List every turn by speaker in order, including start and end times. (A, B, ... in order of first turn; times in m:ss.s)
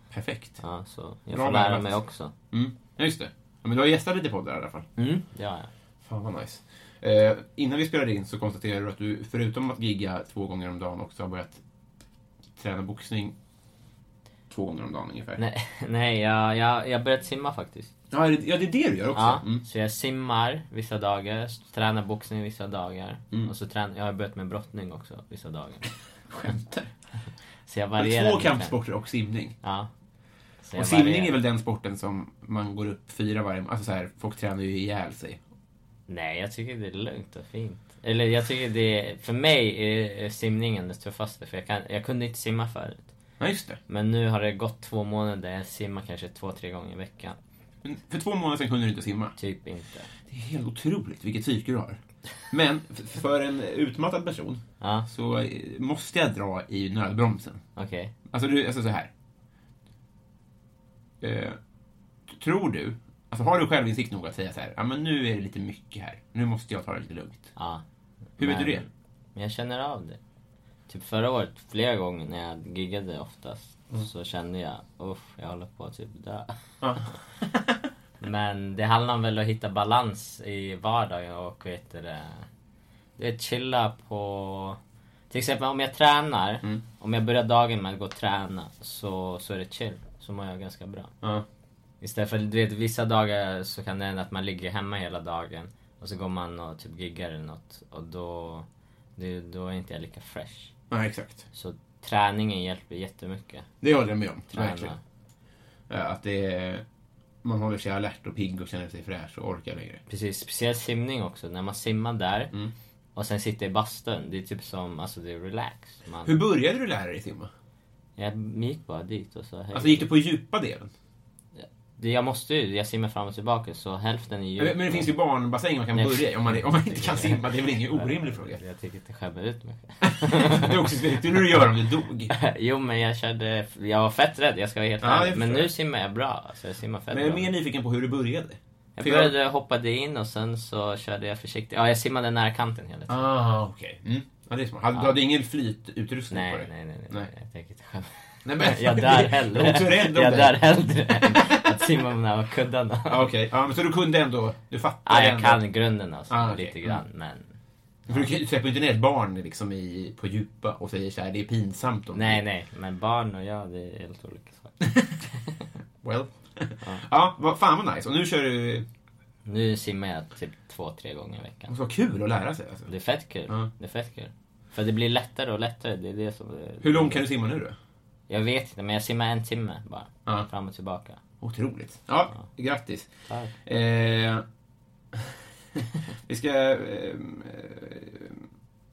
0:00.1-0:00.6 A
0:00.6-0:02.3 B
0:01.3-0:04.9 A
0:05.0-0:05.7 B
0:06.0-0:11.6 A
0:12.6-0:13.4 A
0:14.5-0:15.4 A
0:15.4-0:17.9 B
0:18.1-0:19.6 A
0:19.1-0:25.9 B
0:26.3-0:26.9 A
0:27.7-0:28.8 B
0:28.0-0:29.6 A
0:29.6-0:29.9 B
0:30.6-0:31.4 B
0:30.8-0:35.4 A
0:36.1-0:43.1 B
0:43.4-0:43.8 A
0:43.9-0:47.4 B
0:47.8-0:49.4 A
0:49.4-0:50.1 B
0:50.3-0:57.6 A
0:54.8-0:55.1 B
0:57.8-0:58.1 B
0:58.3-0:59.1 A
1:01.2-1:01.6 A
1:02.3-1:07.5 A
1:07.6-1:07.8 B
1:08.4-1:08.8 A
1:08.4-1:10.2 B
1:10.9-1:16.5 B
1:16.8-1:17.8 A
1:18.2-1:22.5 B
1:23.2-1:24.8 B
1:25.3-1:31.1 B
1:32.0-1:38.7 B
1:39.2-1:40.7 B
1:40.9-1:41.5 A
1:41.5-1:43.7 B
1:43.8-1:44.9 A
1:44.5-1:45.0 B
1:45.9-1:46.8 A
1:47.4-1:50.0 A
1:50.1-1:52.5 B
1:53.2-1:56.4 B
1:56.2-1:57.5 A
1:58.2-2:00.1 B
1:59.7-2:00.9 A
2:01.6-2:05.1 B
2:04.6-2:08.6 A
2:05.9-2:10.8 B
2:10.0-2:12.3 A
2:12.3-2:17.5 B
2:15.0-2:15.7 A
2:17.1-2:19.4 A
2:19.0-2:23.3 B
2:23.1-2:27.3 A
2:26.3-2:33.3 B
2:28.4-2:30.7 A
2:33.1-2:35.6 A
2:35.1-2:37.5 B
2:36.3-2:37.0 A
2:38.1-2:38.3 B
2:38.1-2:42.4 A
2:42.1-2:44.8 B
2:46.0-2:48.9 A
2:49.4-2:51.8 B
2:51.7-2:52.9 A
2:52.9-2:57.2 B
2:56.8-2:57.8 A
2:58.3-3:01.2 B
3:01.4-3:03.1 A
3:03.3-3:03.5 B
3:03.6-3:04.4 A
3:05.1-3:08.4 A